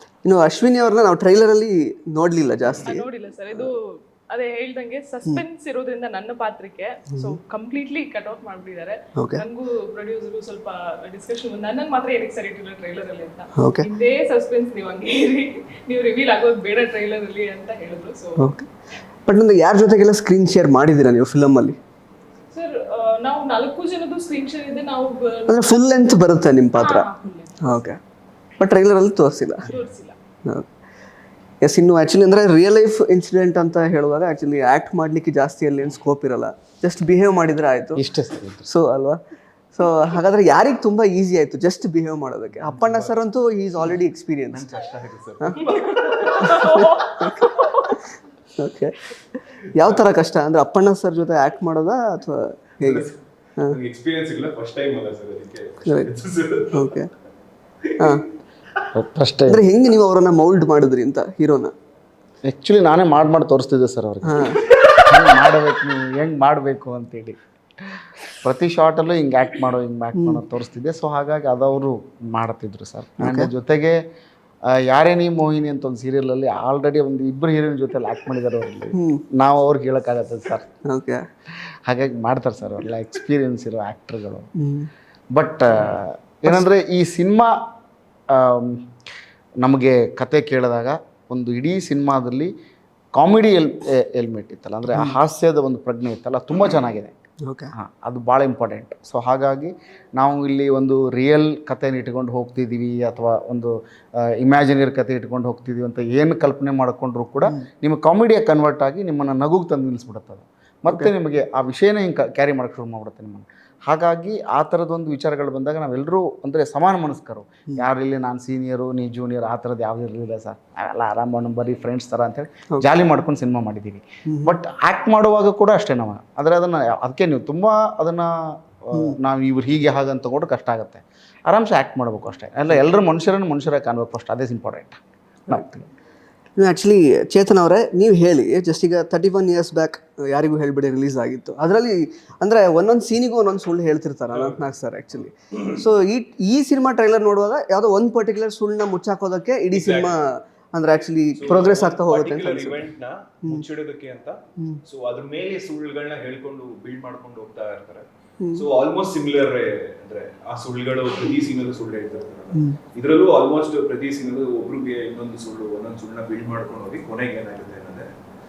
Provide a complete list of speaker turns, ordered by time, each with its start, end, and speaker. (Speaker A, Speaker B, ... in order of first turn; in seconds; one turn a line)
Speaker A: 0.2-3.7
Speaker B: 2.7-18.5
Speaker A: 9.2-9.4
Speaker A: 13.6-13.9
Speaker A: 18.4-18.7
Speaker A: 19.2-21.8
Speaker B: 22.5-25.7
Speaker A: 25.5-27.1
Speaker B: 26.8-27.9
Speaker A: 27.6-28.0
Speaker A: 28.6-29.7
Speaker C: 29.6-29.9
Speaker B: 29.7-30.1
Speaker A: 31.6-38.0
Speaker D: 38.0-38.7
Speaker A: 38.7-39.2
Speaker A: 39.7-44.7
Speaker C: 42.5-43.2
Speaker C: 44.5-46.7
Speaker B: 45.6-48.0
Speaker A: 46.3-49.0
Speaker A: 49.7-53.8
Speaker C: 52.8-57.0
Speaker A: 56.7-57.1
Speaker C: 57.8-58.2
Speaker A: 58.0-58.2
Speaker D: 58.9-59.6
Speaker A: 59.5-61.7
Speaker D: 62.5-64.4
Speaker A: 64.2-64.6
Speaker D: 65.0-67.4
Speaker D: 67.9-74.0
Speaker A: 73.2-73.5
Speaker D: 74.7-80.7
Speaker A: 78.9-79.2
Speaker A: 80.9-81.2
Speaker D: 81.9-84.5
Speaker A: 84.6-84.9
Speaker D: 85.3-87.5
Speaker D: 88.3-88.9
Speaker D: 89.6-92.5
Speaker D: 93.1-97.1
Speaker A: 97.4-97.7
Speaker D: 97.7-103.7
Speaker D: 104.4-135.8
Speaker A: 124.3-124.5
Speaker A: 136.6-152.8
Speaker C: 144.3-144.7
Speaker C: 149.7-150.2
Speaker C: 151.3-168.1
Speaker A: 158.4-158.6